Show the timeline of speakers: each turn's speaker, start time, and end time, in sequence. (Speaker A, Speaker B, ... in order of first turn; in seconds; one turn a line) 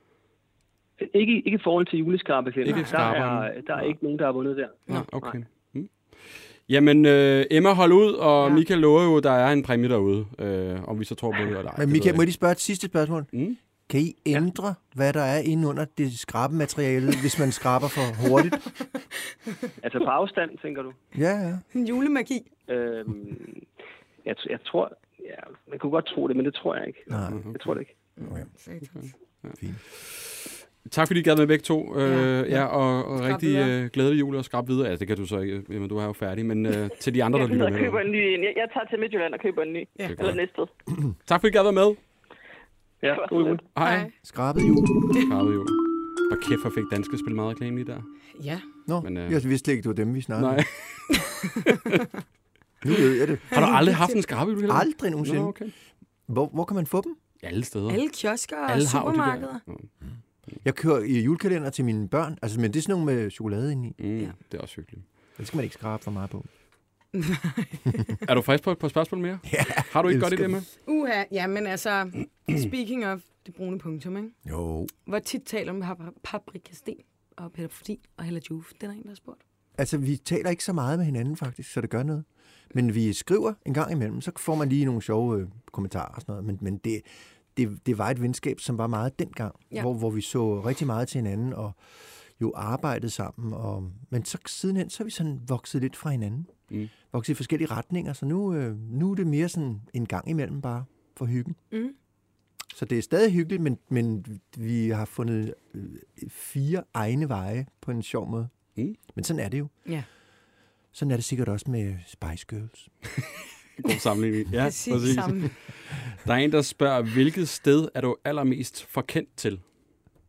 Speaker A: 1.0-5.4
Speaker B: 2.6-4.0
Speaker C: 2.7-3.0
Speaker B: 4.9-12.2
Speaker D: 11.8-13.3
Speaker B: 13.3-13.6
Speaker D: 13.9-18.7
Speaker A: 19.8-21.0
Speaker D: 21.1-21.6
Speaker C: 21.7-22.5
Speaker A: 22.7-23.6
Speaker A: 24.2-27.9
Speaker D: 27.1-27.5
Speaker B: 27.3-27.6
Speaker C: 28.2-29.1
Speaker B: 28.9-38.0
Speaker C: 32.0-32.6
Speaker C: 33.2-33.7
Speaker E: 37.3-40.7
Speaker B: 40.1-40.4
Speaker B: 41.3-42.0
Speaker A: 43.0-43.6
Speaker E: 43.1-43.6
Speaker B: 43.8-44.1
Speaker C: 43.8-44.1
Speaker D: 44.2-44.9
Speaker B: 45.2-48.1
Speaker C: 48.4-48.6
Speaker D: 48.9-50.6
Speaker B: 49.0-49.4
Speaker B: 50.4-52.0
Speaker D: 52.8-53.6
Speaker C: 53.5-54.2
Speaker B: 53.5-55.7
Speaker D: 54.7-55.6
Speaker D: 56.3-57.2
Speaker B: 57.4-58.0
Speaker C: 57.9-59.6
Speaker B: 58.7-59.9
Speaker D: 60.6-64.0
Speaker B: 64.0-65.0
Speaker D: 65.4-66.5
Speaker C: 67.1-68.0
Speaker B: 68.2-70.7
Speaker D: 69.5-70.6
Speaker C: 70.9-74.4
Speaker D: 74.5-74.9
Speaker C: 75.1-79.4
Speaker D: 79.8-96.6
Speaker D: 97.1-101.6
Speaker D: 102.7-108.5
Speaker D: 109.1-109.7
Speaker D: 110.9-112.9
Speaker B: 113.8-119.6
Speaker C: 114.6-115.5